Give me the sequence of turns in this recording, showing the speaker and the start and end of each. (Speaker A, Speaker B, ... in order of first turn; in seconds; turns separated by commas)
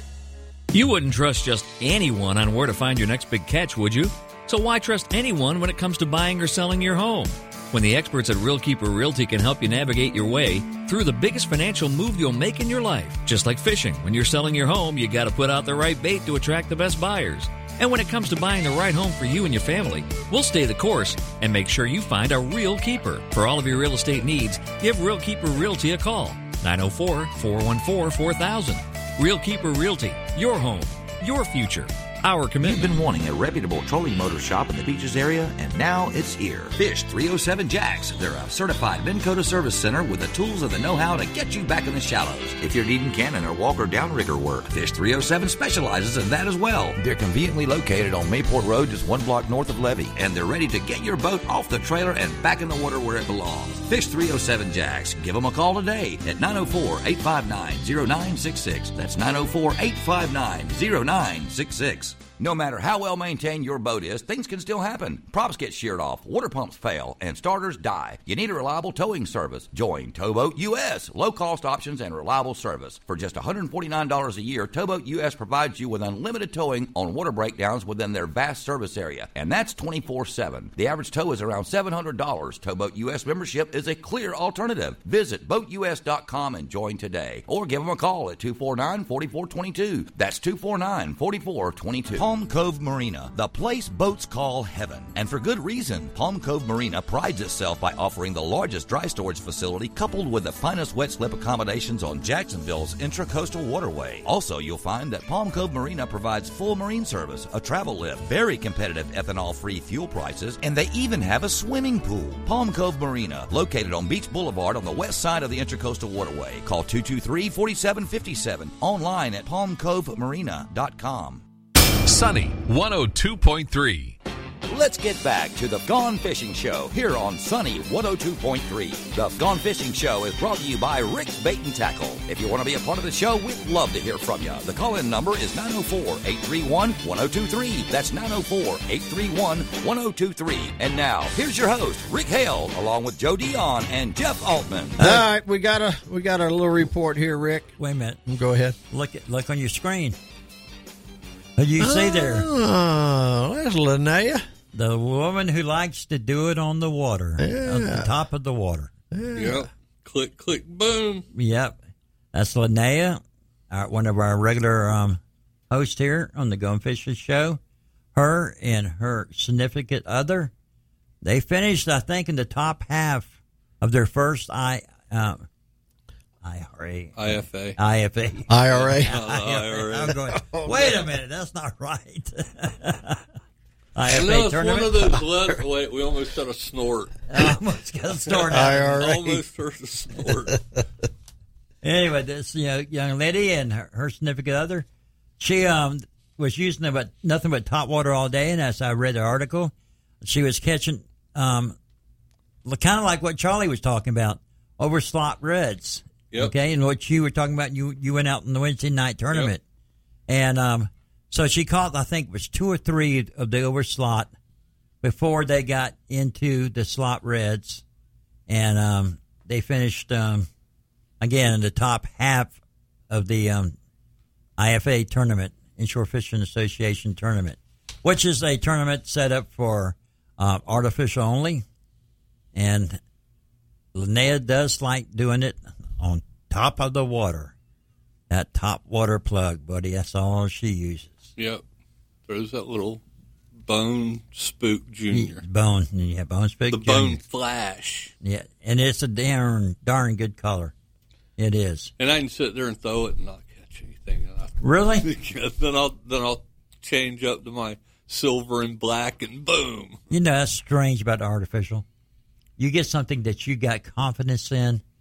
Speaker A: 0.7-33.0, Speaker B: 32.6-121.4, Speaker C: 122.0-124.2, Speaker B: 124.7-145.2, Speaker D: 145.0-147.7, Speaker E: 147.8-148.2, Speaker D: 148.2-148.8, Speaker E: 148.9-150.2, Speaker E: 151.6-152.5, Speaker D: 151.8-154.4, Speaker E: 154.7-158.9, Speaker D: 157.4-158.1, Speaker D: 159.1-159.7, Speaker F: 159.3-161.3, Speaker E: 161.3-161.8, Speaker E: 162.3-167.6, Speaker E: 168.1-170.5, Speaker E: 171.2-175.4, Speaker E: 176.4-183.2, Speaker F: 177.1-177.8, Speaker D: 178.5-179.1, Speaker F: 178.7-180.2, Speaker D: 180.3-181.0, Speaker E: 183.9-185.2, Speaker F: 184.1-187.2, Speaker E: 187.3-189.1, Speaker F: 188.3-190.6, Speaker D: 188.5-189.4, Speaker E: 191.8-194.8, Speaker E: 195.4-201.8, Speaker E: 202.6-209.6, Speaker E: 210.3-214.3, Speaker E: 215.0-217.8, Speaker E: 218.5-220.5, Speaker E: 221.2-222.6, Speaker E: 223.1-223.8, Speaker E: 224.6-231.6, Speaker E: 232.5-233.0, Speaker E: 233.9-237.5, Speaker E: 238.3-241.3, Speaker F: 241.4-241.6, Speaker F: 242.2-243.0, Speaker F: 243.6-245.4, Speaker E: 245.1-247.2, Speaker F: 246.7-248.1, Speaker E: 248.2-250.7, Speaker E: 251.4-251.9, Speaker F: 252.0-260.0, Speaker E: 254.6-255.1, Speaker E: 260.1-261.8, Speaker E: 262.6-264.8